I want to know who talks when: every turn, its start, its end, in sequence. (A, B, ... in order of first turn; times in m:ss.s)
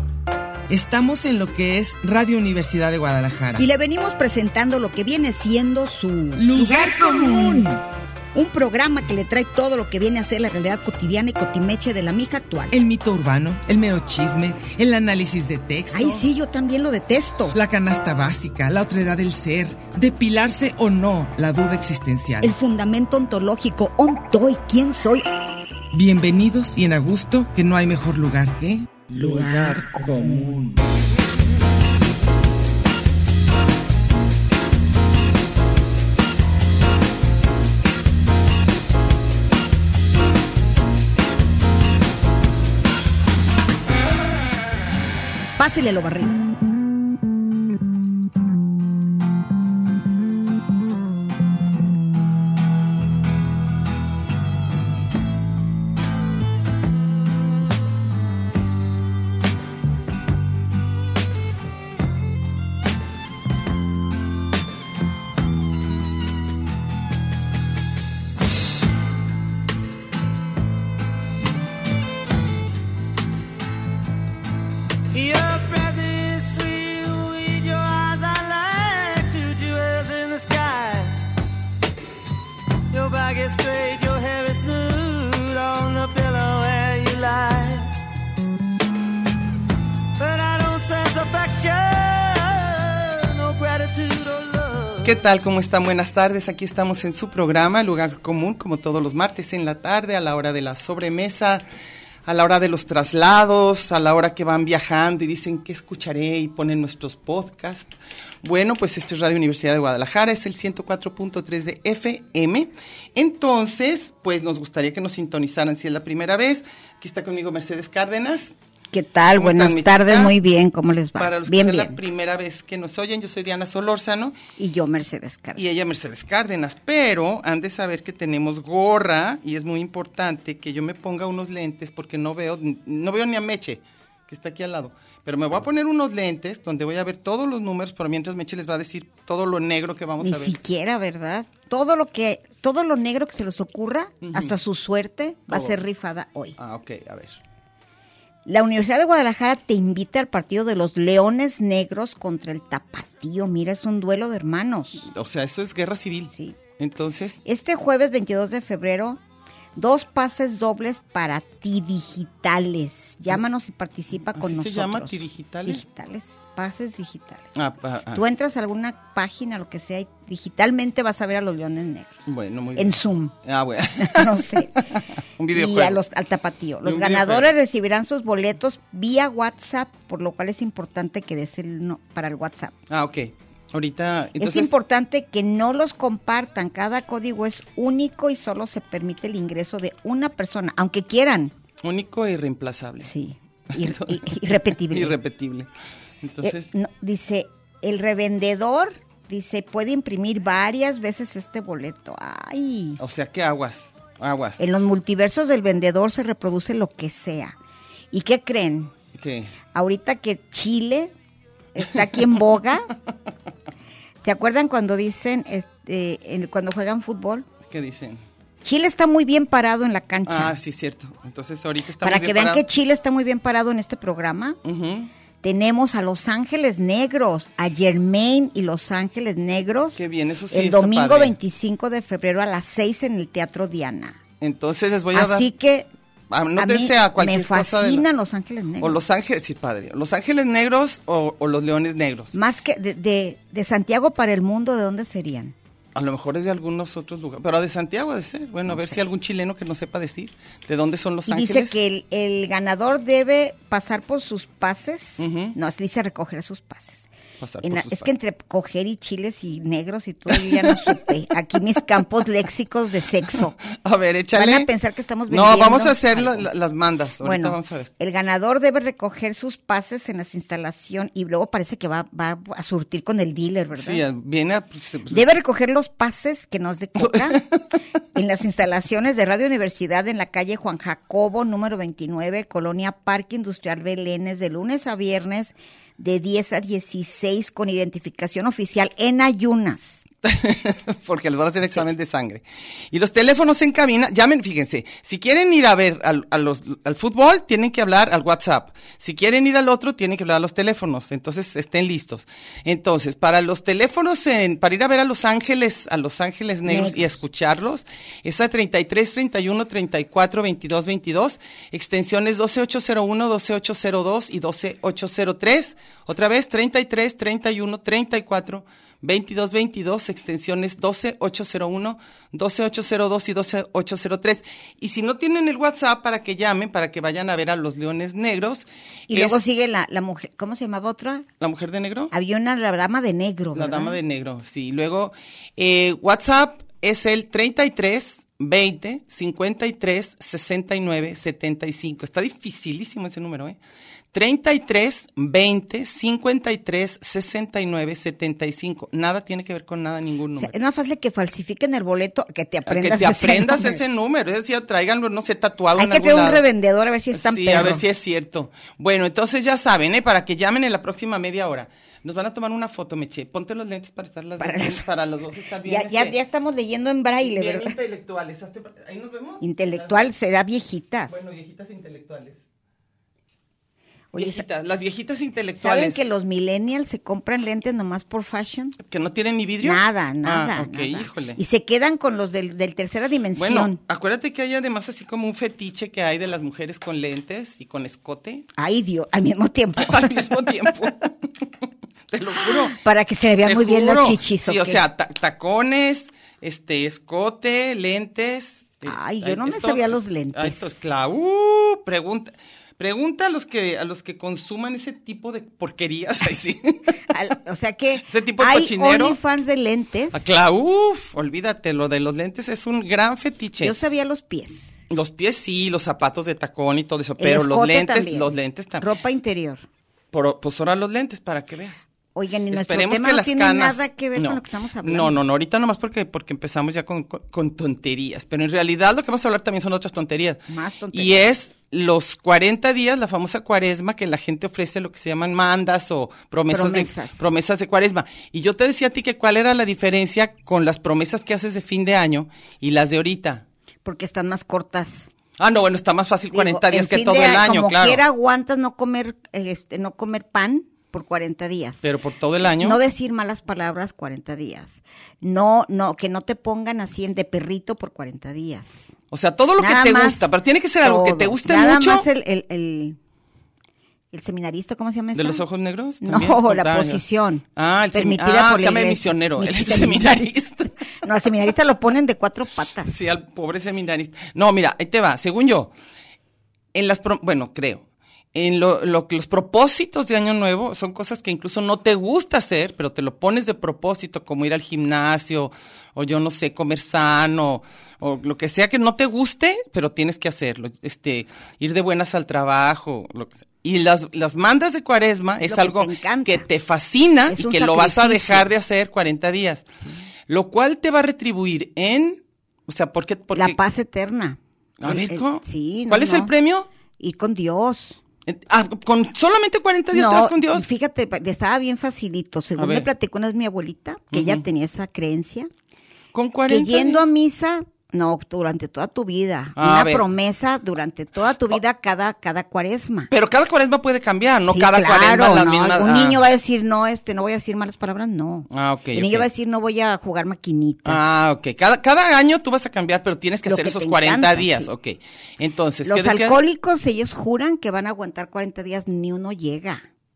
0:00.7-0:03.7 A
0:03.6-0:07.7 B
0:06.4-0:07.8 A
0:08.3-0:12.7 B
0:12.7-0:16.3 A
0:15.9-0:17.6 B
0:17.5-0:22.6 A
0:22.4-0:25.3 B
0:25.9-0:30.8 A
0:29.3-0:29.8 B
0:45.6-0:46.4 B
1:15.1-1:21.2 C
1:22.9-1:27.9 C
1:30.2-1:35.2 C
1:35.0-1:41.6 D
1:42.2-1:47.9 D
1:48.4-1:58.5 D
1:58.9-2:02.0 B
1:59.3-2:00.3 D
2:01.2-2:04.4 D
2:04.6-2:05.6 B
2:05.6-2:20.6 D
2:20.2-2:26.6 B
2:24.2-2:24.5 D
2:25.5-2:25.8 D
2:26.6-2:27.4 D
2:28.5-2:35.1 B
2:35.1-2:37.4 D
2:37.4-2:39.2 B
2:39.8-2:47.5 B
2:44.3-2:45.8 D
2:47.6-2:48.2 D
2:48.1-2:52.2 B
2:52.3-2:56.0 D
2:52.8-2:53.3 B
2:54.0-2:54.8 B
2:55.5-3:02.7 B
2:56.8-2:57.5 D
3:02.9-3:04.7 D
3:04.4-3:11.5 B
3:11.8-3:13.1 D
3:13.0-3:15.1 B
3:13.8-3:15.7 D
3:16.2-3:16.7 D
3:16.4-3:23.0 B
3:23.0-3:24.6 D
3:24.6-3:27.6 B
3:28.1-3:28.9 B
3:29.2-3:29.5 D
3:29.7-3:31.1 B
3:31.8-3:32.9 B
3:34.2-3:37.5 B
3:37.6-3:38.2 D
3:38.6-3:40.6 B
3:40.3-3:42.6 D
3:42.0-3:44.6 B
3:44.6-3:45.1 D
3:45.4-3:54.2 B
3:50.0-3:51.4 D
3:54.4-3:55.5 D
3:55.1-3:55.9 B
3:56.3-3:58.0 D
3:56.6-3:59.0 B
3:58.8-4:02.3 D
4:02.3-4:05.6 B
4:06.0-4:11.8 D
4:08.7-4:09.0 B
4:11.3-4:17.1 B
4:15.2-4:15.6 D
4:17.4-4:18.1 D
4:17.6-4:23.6 B
4:20.3-4:21.0 D
4:23.7-4:24.7 D
4:24.3-4:26.5 B
4:25.3-4:27.9 D
4:27.2-4:34.0 B
4:33.8-4:35.2 D
4:35.1-4:37.4 B
4:37.0-4:37.6 D
4:38.2-4:50.0 B
4:50.2-5:29.4 D
5:06.6-5:07.1 B
5:29.1-5:31.3 B
5:31.4-5:32.1 D
5:32.1-5:34.0 B
5:33.6-5:43.6 D
5:44.1-5:50.5 D
5:50.4-5:53.8 B
5:52.7-5:56.4 D
5:55.8-5:57.8 B
5:57.1-6:06.2 D
6:04.4-6:04.9 B
6:05.6-6:07.8 B
6:07.2-6:10.0 D
6:09.4-6:11.2 B
6:11.1-6:12.4 D
6:14.1-6:14.4 B
6:14.2-6:16.0 D
6:15.6-6:18.8 B
6:18.8-6:21.4 D
6:19.6-6:23.8 B
6:23.4-6:28.5 D
6:28.6-6:30.3 B
6:29.8-6:31.1 D
6:32.1-6:32.8 D
6:32.7-6:34.8 B
6:33.4-6:47.0 D
6:38.9-6:40.8 B
6:47.1-6:50.2 B
6:48.1-6:49.2 D
6:50.1-6:53.7 D
6:53.6-6:54.7 B
6:54.9-6:58.9 D
6:57.2-6:59.6 B
7:00.1-7:01.9 D
7:02.2-7:05.2 B
7:02.5-7:23.4 D
7:10.5-7:11.3 B
7:16.5-7:17.3 B
7:23.8-7:25.1 B
7:25.4-7:28.0 D
7:26.3-7:31.8 B
7:31.8-7:32.8 D
7:32.6-7:38.9 B
7:39.1-7:42.1 D
7:39.6-7:40.3 B
7:40.8-7:43.0 B
7:44.1-7:45.4 B
7:45.2-7:47.0 D
7:46.0-7:50.3 B
7:47.6-7:50.7 D
7:51.0-7:52.9 B
7:52.9-7:55.7 D
7:56.7-8:19.7 D
8:15.4-8:16.5 B
8:17.3-8:18.5 B
8:20.3-8:23.6 D
8:23.3-8:26.3 B
8:24.8-8:26.7 D
8:27.0-8:28.0 B
8:28.3-8:30.7 D
8:29.9-8:35.5 B
8:32.6-8:32.9 D
8:34.1-8:34.4 D
8:36.1-8:37.0 D
8:36.5-8:43.1 B
8:39.6-8:40.0 D
8:43.1-8:46.2 D
8:44.5-8:51.0 B
8:48.5-8:49.3 D
8:50.8-8:56.4 D
8:53.5-8:54.7 B
8:55.9-8:59.9 B